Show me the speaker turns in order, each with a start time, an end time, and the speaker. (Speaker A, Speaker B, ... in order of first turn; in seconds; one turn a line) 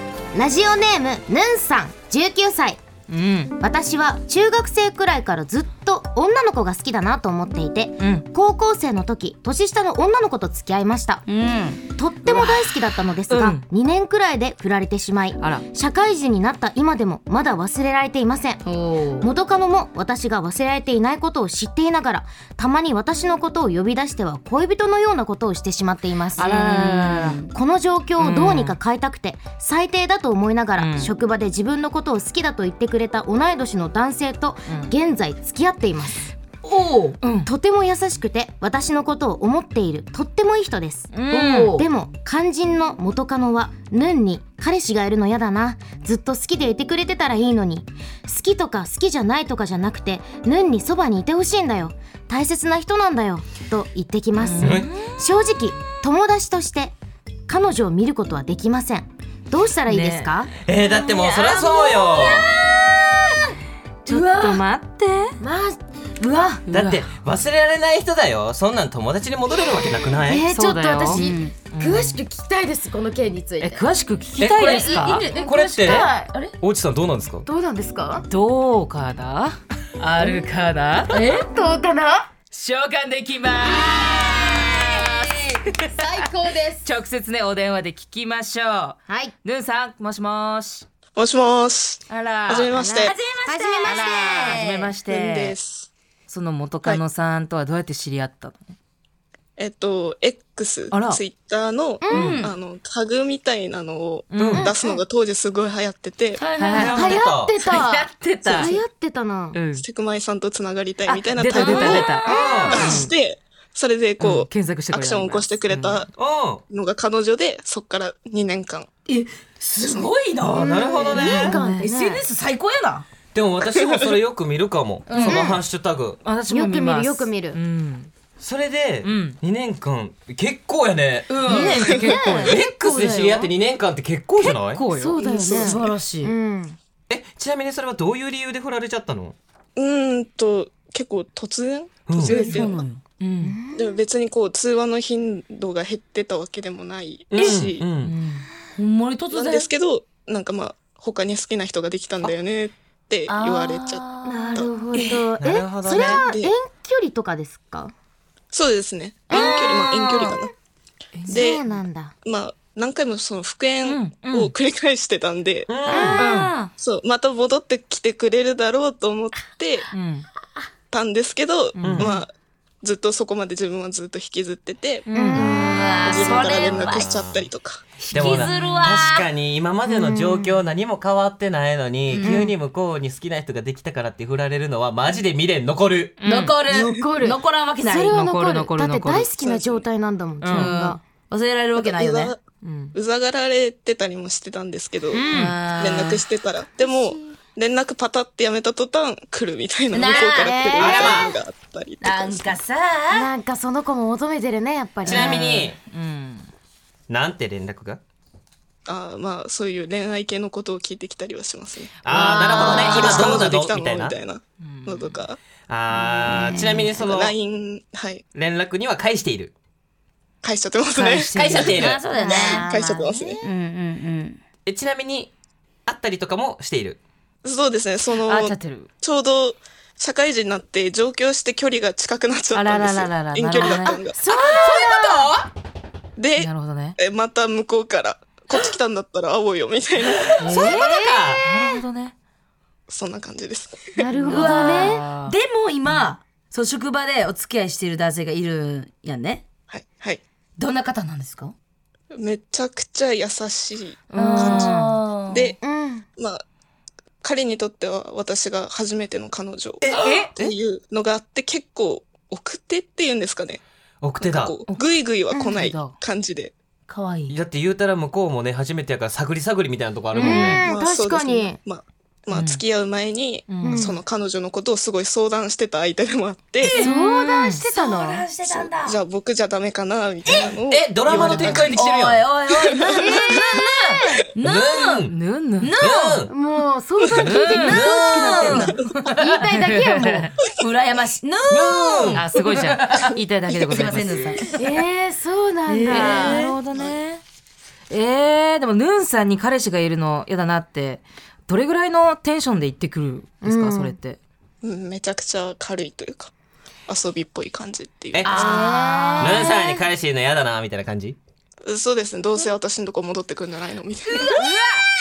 Speaker A: 0.3-2.8
Speaker B: 3.1-3.5
Speaker A: 3.6-11.2
Speaker B: 8.0-8.2
Speaker C: 11.2-11.8
Speaker A: 11.9-18.6
Speaker B: 13.3-13.6
Speaker C: 18.6-19.3
Speaker A: 19.2-36.3
Speaker B: 26.4-27.4
Speaker C: 26.6-27.5
Speaker B: 28.2-28.8
Speaker B: 30.8-31.1
Speaker B: 34.7-34.9
Speaker C: 36.6-37.2
Speaker B: 37.2-37.5
Speaker A: 37.4-56.9
Speaker C: 41.1-41.9
Speaker B: 41.3-41.6
Speaker B: 54.4-55.2
Speaker D: 54.6-54.9
Speaker A: 57.5-60.5
Speaker B: 59.9-60.4
Speaker D: 60.6-62.5
Speaker C: 60.8-63.1
Speaker B: 64.0-65.3
Speaker C: 64.1-64.6
Speaker A: 65.4-66.7
Speaker B: 66.7-67.1
Speaker D: 66.7-70.5
Speaker A: 70.2-73.9
Speaker B: 70.5-72.2
Speaker C: 71.1-71.5
Speaker B: 73.6-75.3
Speaker D: 74.4-74.7
Speaker C: 74.5-76.5
Speaker A: 74.7-76.3
Speaker D: 75.3-77.5
Speaker A: 77.4-78.2
Speaker B: 78.3-81.1
Speaker C: 80.2-80.4
Speaker C: 81.1-81.5
Speaker A: 81.3-82.3
Speaker B: 82.5-85.8
Speaker C: 83.9-85.5
Speaker A: 85.9-86.8
Speaker B: 86.8-90.8
Speaker A: 89.1-89.3
Speaker E: 91.2-93.2
Speaker C: 92.1-94.9
Speaker A: 93.3-94.6
Speaker B: 93.8-95.5
Speaker E: 95.0-95.9
Speaker B: 96.3-98.6
Speaker E: 99.6-106.4
Speaker B: 100.9-101.2
Speaker A: 102.0-102.4
Speaker B: 102.1-102.4
Speaker C: 102.1-102.5
Speaker B: 104.3-104.7
Speaker D: 104.4-104.7
Speaker A: 104.5-105.0
Speaker C: 106.4-106.9
Speaker B: 106.6-108.8
Speaker D: 106.7-107.6
Speaker A: 106.7-109.6
Speaker C: 108.5-108.8
Speaker B: 109.5-109.8
Speaker E: 109.8-116.1
Speaker B: 111.1-113.1
Speaker C: 111.6-112.9
Speaker A: 111.6-113.0
Speaker D: 112.3-112.9
Speaker B: 114.2-116.0
Speaker D: 116.2-116.6
Speaker E: 116.7-118.9
Speaker C: 119.1-123.0
Speaker E: 119.7-120.1
Speaker D: 120.5-121.5
Speaker A: 120.7-122.3
Speaker B: 121.3-121.8
Speaker D: 123.3-126.2
Speaker C: 125.1-125.5
Speaker A: 125.2-125.6
Speaker B: 126.2-128.1
Speaker A: 126.5-127.6
Speaker D: 128.4-131.3
Speaker B: 129.0-129.4
Speaker C: 131.3-131.8
Speaker A: 131.4-132.5
Speaker B: 131.4-132.6
Speaker E: 131.8-132.1
Speaker D: 131.8-134.8
Speaker C: 132.5-133.5
Speaker B: 134.6-135.2
Speaker A: 134.9-136.8
Speaker C: 135.2-136.3
Speaker E: 135.2-135.9
Speaker D: 137.1-139.3
Speaker E: 139.8-142.8
Speaker D: 142.1-142.6
Speaker C: 142.2-143.0
Speaker B: 143.2-143.6
Speaker A: 143.4-144.0
Speaker E: 143.7-147.9
Speaker D: 147.3-148.1
Speaker B: 148.0-148.5
Speaker C: 148.8-149.7
Speaker E: 149.3-154.7
Speaker C: 153.3-155.2
Speaker A: 154.2-157.9
Speaker D: 155.4-156.2
Speaker E: 155.9-156.5
Speaker E: 158.5-160.5
Speaker A: 159.3-160.4
Speaker B: 161.1-161.6
Speaker E: 161.3-161.6
Speaker A: 161.3-162.1
Speaker E: 162.2-165.8
Speaker B: 163.8-164.5
Speaker D: 165.7-166.2
Speaker A: 165.9-166.2
Speaker C: 165.9-166.7
Speaker B: 166.2-166.5
Speaker E: 166.8-169.9
Speaker B: 169.9-170.2
Speaker E: 170.9-172.3
Speaker B: 171.8-172.1
Speaker D: 171.8-172.1
Speaker E: 172.8-175.1
Speaker B: 175.1-175.4
Speaker A: 175.1-176.2
Speaker C: 175.3-177.1
Speaker D: 175.3-177.5
Speaker E: 175.9-177.8
Speaker C: 178.0-179.3
Speaker D: 178.1-186.2
Speaker B: 178.4-178.8
Speaker A: 179.8-180.6
Speaker C: 182.1-182.5
Speaker A: 182.2-182.5
Speaker B: 186.2-186.6
Speaker C: 186.2-188.1
Speaker A: 186.7-191.0
Speaker B: 188.1-189.3
Speaker E: 189.4-189.8
Speaker B: 190.4-190.8
Speaker C: 190.5-192.3
Speaker E: 191.8-192.4
Speaker B: 192.6-192.9
Speaker E: 192.9-202.6
Speaker C: 195.1-196.2
Speaker B: 195.3-195.6
Speaker C: 199.9-201.3
Speaker A: 200.4-201.1
Speaker D: 200.8-201.4
Speaker C: 202.0-203.3
Speaker A: 203.1-205.4
Speaker D: 205.1-205.8
Speaker C: 205.1-205.4
Speaker B: 205.1-206.5
Speaker D: 207.1-208.0
Speaker E: 208.8-215.4
Speaker D: 212.0-214.1
Speaker C: 212.1-213.5
Speaker A: 212.2-213.2
Speaker B: 214.6-215.2
Speaker D: 215.7-217.3
Speaker C: 216.1-216.8
Speaker E: 216.7-218.2
Speaker D: 218.3-219.5
Speaker E: 220.4-223.5
Speaker B: 220.9-221.7
Speaker C: 221.3-222.7
Speaker D: 221.4-222.0
Speaker A: 222.1-223.4
Speaker C: 223.4-224.4
Speaker D: 224.7-225.3
Speaker D: 225.8-227.0
Speaker E: 227.4-234.2
Speaker B: 228.2-228.9
Speaker B: 232.5-234.0
Speaker A: 234.2-235.2
Speaker C: 234.3-235.0
Speaker D: 234.4-235.3
Speaker E: 236.2-240.4
Speaker B: 236.4-237.0
Speaker B: 240.4-242.1
Speaker A: 240.4-241.2
Speaker C: 240.5-241.0
Speaker D: 240.5-241.4
Speaker E: 242.9-244.0
Speaker A: 244.0-245.0
Speaker B: 244.2-245.3
Speaker C: 244.2-249.4
Speaker E: 249.7-250.2
Speaker C: 250.6-251.5
Speaker E: 252.1-255.6
Speaker B: 254.1-255.0
Speaker C: 254.2-255.5
Speaker A: 255.6-256.1
Speaker E: 256.2-256.4
Speaker E: 257.2-263.6
Speaker B: 259.9-260.3
Speaker C: 259.9-260.3
Speaker D: 264.0-264.6
Speaker E: 264.2-266.5
Speaker B: 265.6-265.9
Speaker C: 266.9-267.4
Speaker D: 267.3-270.6
Speaker A: 270.1-271.6
Speaker C: 270.2-270.5
Speaker E: 270.5-276.8
Speaker B: 272.3-272.6
Speaker B: 273.5-273.9
Speaker A: 273.6-274.0
Speaker A: 276.6-278.3
Speaker C: 276.6-276.9
Speaker B: 276.7-277.6
Speaker C: 277.6-279.0
Speaker E: 278.4-281.8
Speaker C: 280.3-280.5
Speaker D: 280.7-282.2
Speaker C: 281.1-285.1
Speaker E: 282.7-283.5
Speaker A: 283.0-284.2
Speaker D: 284.4-285.1
Speaker B: 285.1-285.7
Speaker C: 285.6-286.2
Speaker D: 285.8-286.3
Speaker A: 286.3-290.3
Speaker E: 287.0-287.4
Speaker B: 287.2-290.3
Speaker C: 287.5-288.8
Speaker D: 287.5-288.7
Speaker C: 290.5-294.7
Speaker D: 291.5-292.2
Speaker B: 292.1-294.4
Speaker A: 294.6-296.5
Speaker C: 295.7-296.4
Speaker B: 295.8-297.2
Speaker B: 297.9-304.2
Speaker A: 303.4-304.0
Speaker E: 304.6-306.3
Speaker E: 306.9-308.4
Speaker D: 308.1-308.5
Speaker C: 308.2-309.6
Speaker A: 308.3-309.8
Speaker D: 309.2-311.2
Speaker E: 311.6-314.4
Speaker C: 314.4-314.7